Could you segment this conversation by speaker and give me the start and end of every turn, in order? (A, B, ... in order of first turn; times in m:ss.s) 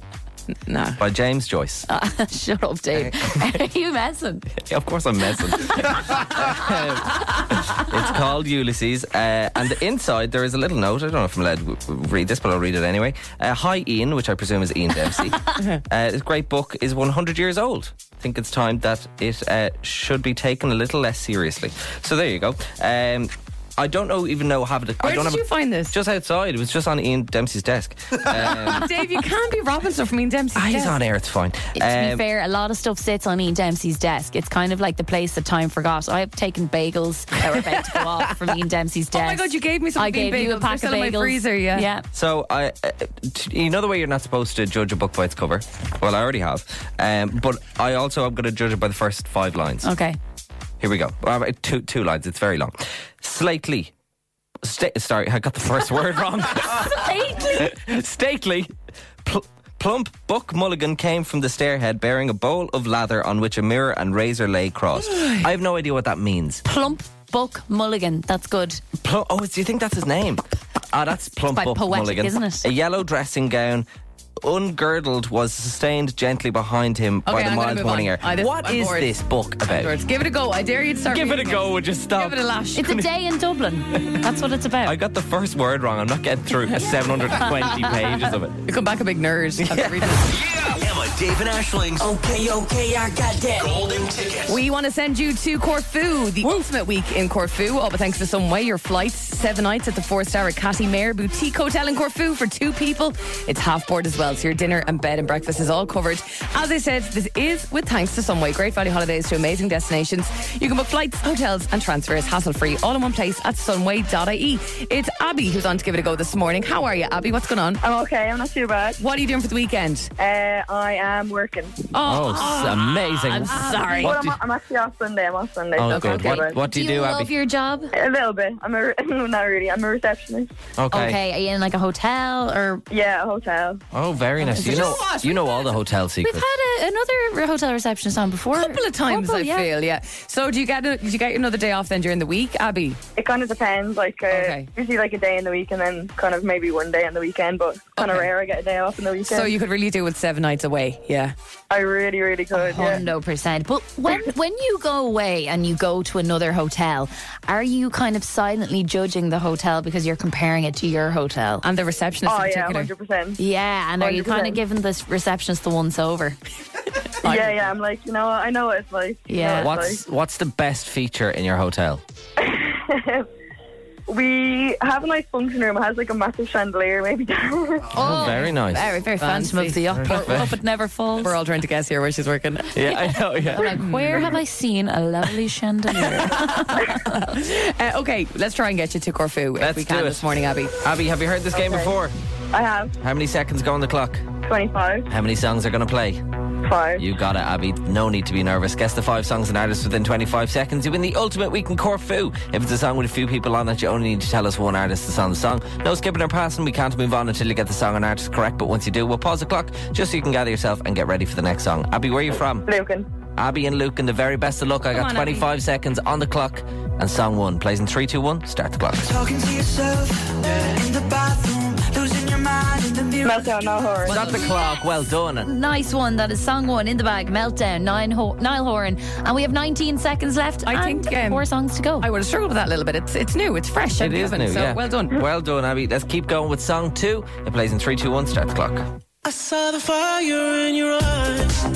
0:00.7-0:01.0 A
0:01.0-0:01.9 B
0:01.9-0:04.5 C
0:02.9-0:03.6 B
0:04.5-0:28.9 B
0:25.0-0:26.0 A
0:28.4-0:31.0 A
0:30.6-0:32.2 B
0:31.8-0:42.1 C
0:39.1-0:41.9 A
0:42.1-0:49.9 B
0:49.8-0:50.2 C
0:50.8-0:53.9 B
0:54.6-0:58.7 B
0:56.9-0:57.7 C
0:59.2-1:06.6 B
1:06.6-1:08.8 C
1:09.0-1:13.9 B
1:11.5-1:12.7 C
1:14.4-1:20.0 B
1:17.3-1:23.0 A
1:21.1-1:22.4 B
1:22.8-1:25.0 C
1:24.8-1:28.6 B
1:28.7-1:30.3 A
1:29.6-1:30.2 B
1:30.4-1:33.0 D
1:32.0-1:33.7 E
1:33.5-1:34.6 D
1:34.5-1:57.8 A
1:57.8-1:59.0 F
1:59.0-2:00.1 A
2:00.2-2:01.9 F
2:01.9-2:03.0 A
2:02.0-2:04.4 B
2:02.3-2:04.2 C
2:03.5-2:04.0 A
2:04.0-2:06.6 F
2:05.8-2:07.3 B
2:05.9-2:06.4 A
2:06.0-2:07.9 C
2:07.9-2:10.5 F
2:10.8-2:11.2 B
2:10.9-2:12.8 C
2:12.9-2:13.8 F
2:13.9-2:16.5 B
2:14.4-2:15.2 C
2:14.4-2:15.8 A
2:16.2-2:19.7 C
2:18.6-2:23.0 A
2:23.2-2:29.5 F
2:24.3-2:24.7 A
2:28.0-2:28.3 A
2:29.3-2:31.3 A
2:31.7-2:33.0 F
2:32.5-2:41.6 C
2:41.6-2:42.9 A
2:42.3-2:43.4 F
2:43.4-2:46.4 C
2:44.0-2:44.6 F
2:47.2-2:47.7 A
2:47.2-2:50.0 F
2:49.3-2:49.8 C
2:49.6-2:52.0 B
2:52.4-2:53.3 F
2:54.1-2:58.0 F
2:57.9-3:01.4 C
2:58.0-2:59.0 B
2:58.7-3:00.4 A
3:00.0-3:00.5 B
3:01.2-3:02.8 A
3:02.7-3:03.7 B
3:03.0-3:07.2 C
3:03.5-3:04.4 A
3:06.0-3:10.7 A
3:09.6-3:10.2 B
3:10.8-3:12.2 B
3:11.5-3:11.9 F
3:12.5-3:13.0 F
3:13.0-3:14.3 B
3:14.4-3:15.1 F
3:15.1-3:16.2 B
3:16.6-3:17.1 F
3:17.0-3:32.7 B
3:32.7-3:33.1 F
3:33.4-3:39.1 B
3:34.9-3:35.5 A
3:39.0-3:44.1 E
3:43.2-3:44.2 F
3:44.1-3:45.5 B
3:44.1-3:44.8 C
3:45.4-3:52.1 C
3:50.7-3:51.4 A
3:52.0-3:55.2 A
3:54.0-4:01.6 B